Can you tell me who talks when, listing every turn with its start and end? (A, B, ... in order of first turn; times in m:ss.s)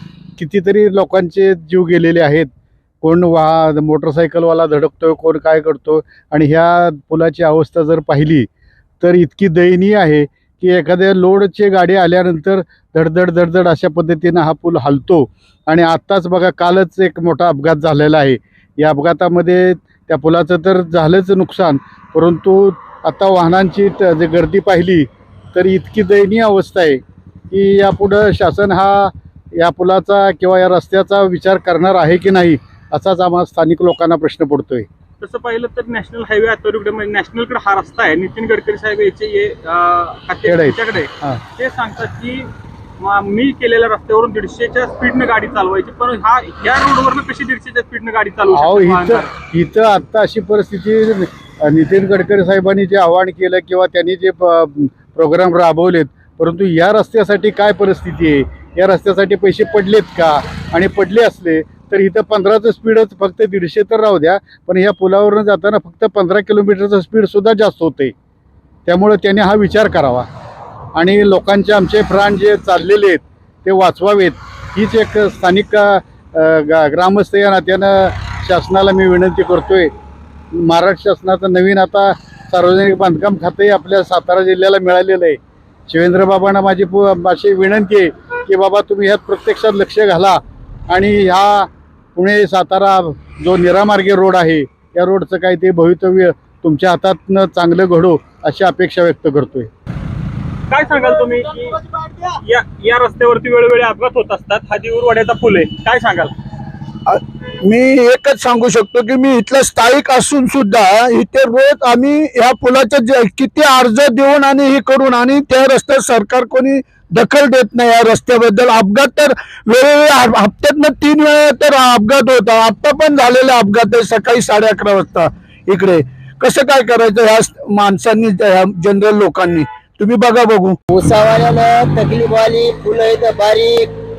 0:00.4-0:02.5 A
0:03.0-0:08.5 A
0:09.0-0:34.9 A
0:35.2-0:49.3 B
0:40.4-0:41.4 A
0:48.5-1:08.1 A
1:08.8-1:10.3 A
1:10.9-1:19.9 A
1:20.5-1:39.7 A
1:40.7-1:46.3 B
1:47.1-2:10.8 C
2:10.9-2:14.0 D